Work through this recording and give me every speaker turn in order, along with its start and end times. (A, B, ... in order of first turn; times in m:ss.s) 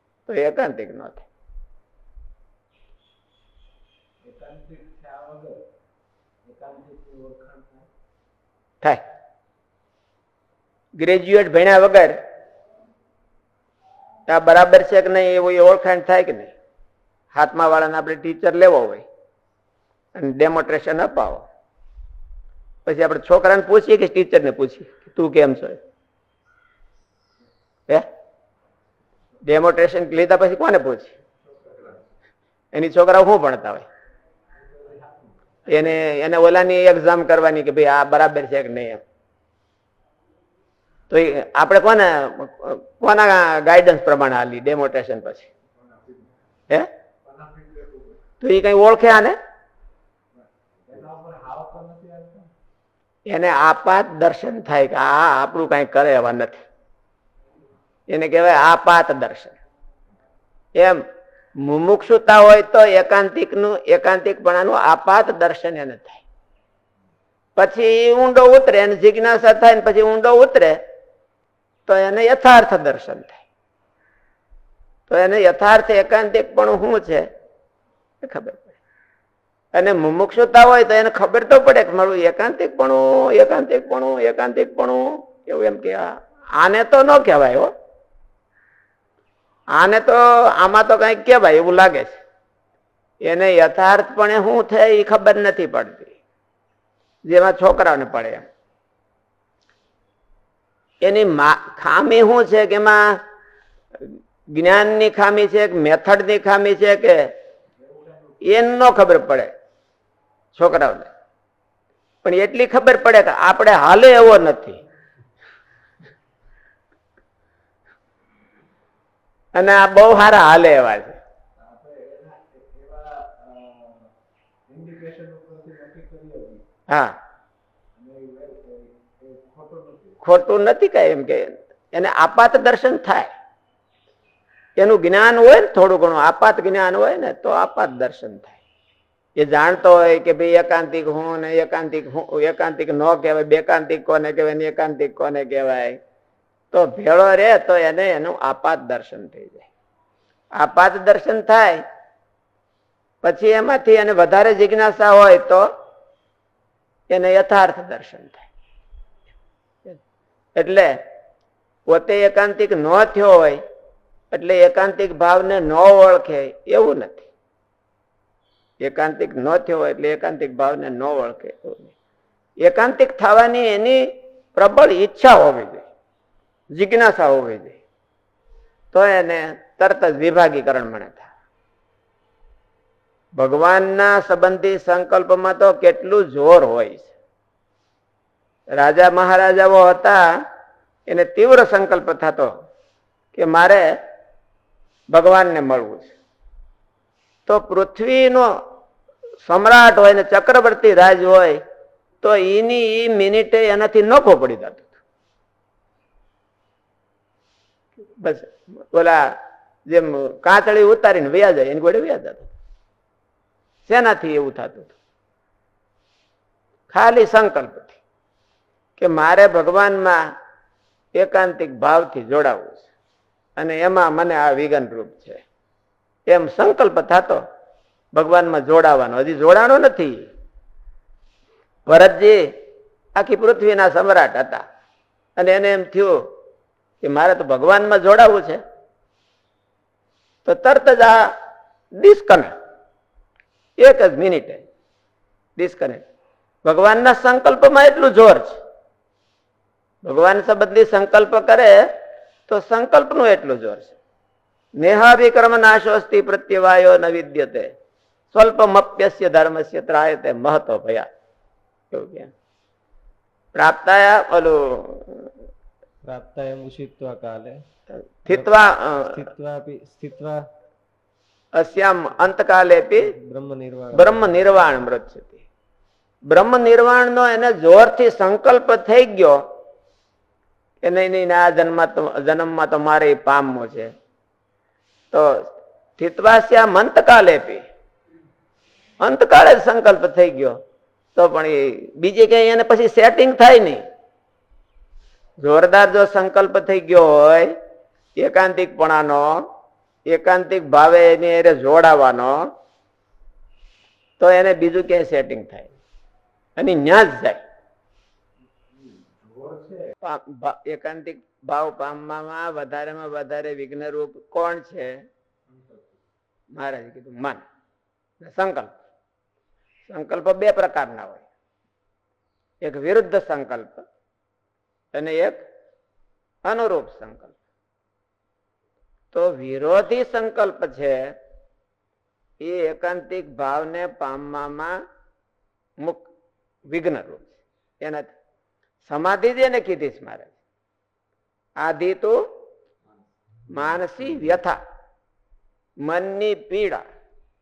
0:00.3-0:01.2 A
0:04.2-0:05.6 B
0:06.4-0:07.9 B
0:11.0-0:12.2 A
0:14.3-0:16.5 A
0:17.3-0:19.0 A
0:20.2-0:21.5 A
0:22.8-0:25.8 A
0:29.4-0:31.1 A
0:31.4-0:32.0 B
0:32.7-0:33.9 A
0:34.5-0:35.9 B
0:35.7-0:39.0 A
0:41.1-0:45.5 A
0:45.8-0:46.4 B
0:47.2-0:48.2 B
0:48.4-0:49.4 A
0:50.3-0:52.5 B
0:53.3-0:56.6 A
0:58.1-0:59.6 A
1:00.8-1:01.0 A
1:01.6-1:06.2 A
1:07.6-1:10.8 A
1:11.9-1:13.4 A
1:15.1-1:17.3 A
1:18.2-1:18.8 A
1:19.7-1:27.7 A
1:29.8-1:32.2 A
1:33.2-1:36.2 A
1:37.3-1:38.5 A
1:41.0-1:43.2 A
1:44.5-1:47.3 A
1:47.8-1:48.5 B
1:48.4-1:49.5 A
1:50.6-1:51.1 A
1:52.2-1:54.8 A
1:59.6-2:01.2 A
2:01.6-2:04.1 B
2:04.7-2:06.6 B
2:06.9-2:07.2 A
2:08.0-2:10.2 B
2:10.2-2:13.3 A
2:14.8-2:18.6 A
2:19.4-2:26.0 A
2:26.7-2:29.7 A
2:30.6-2:31.8 A
2:33.2-2:35.7 A
2:37.1-2:38.5 A
2:40.6-2:41.0 A
2:41.9-2:43.6 A
2:44.3-2:47.3 A
2:48.8-2:51.9 A
2:52.6-2:55.8 A
2:56.7-2:57.8 A
2:58.9-3:01.3 A
3:03.4-3:07.1 A
3:08.7-3:10.2 A
3:11.1-3:12.5 A
3:13.3-3:13.9 A
3:15.1-3:16.1 A
3:17.5-3:18.5 A
3:19.4-3:21.6 A
3:22.2-3:24.9 A
3:28.2-3:29.4 A
3:29.9-3:32.5 A
3:33.9-3:34.9 A
3:36.9-3:38.0 A
3:39.0-3:40.3 A
3:41.2-3:42.9 A
3:43.6-3:45.4 A
3:46.3-3:47.4 A
3:48.1-3:50.3 A
3:51.9-3:52.5 A
3:53.2-3:54.6 A
3:55.4-3:56.3 A
3:57.0-3:58.6 A
4:00.4-4:01.3 A
4:02.0-4:02.5 A
4:03.8-4:04.6 A
4:05.6-4:06.0 A
4:06.6-4:08.6 A
4:10.0-4:11.9 A
4:12.5-4:14.0 A
4:14.8-4:17.7 A
4:18.3-4:21.1 A
4:21.9-4:22.3 A
4:23.6-4:25.3 A
4:26.0-4:27.6 C
4:28.2-4:29.2 A
4:29.1-4:30.4 C
4:31.6-4:33.1 A
4:33.0-4:34.6 C
4:33.9-4:35.4 A
4:36.3-4:39.4 A
4:40.8-4:43.9 A
4:45.1-4:47.6 A
4:49.0-4:50.6 A
4:51.2-4:53.8 A
4:55.4-4:57.5 A
4:58.2-4:59.5 A
5:00.1-5:02.5 A
5:04.2-5:05.7 A
5:06.6-5:07.4 A
5:08.7-5:10.0 B
5:10.0-5:15.0 A
5:15.5-5:16.0 B
5:16.6-5:17.4 A
5:18.2-5:18.7 A
5:19.9-5:21.2 A
5:22.6-5:23.8 A
5:24.9-5:25.4 A
5:26.4-5:27.4 A
5:29.1-5:31.2 A
5:32.4-5:34.8 A
5:36.7-5:38.2 A
5:38.9-5:40.3 A
5:41.6-5:42.3 A
5:43.5-5:44.6 A
5:45.8-5:46.8 A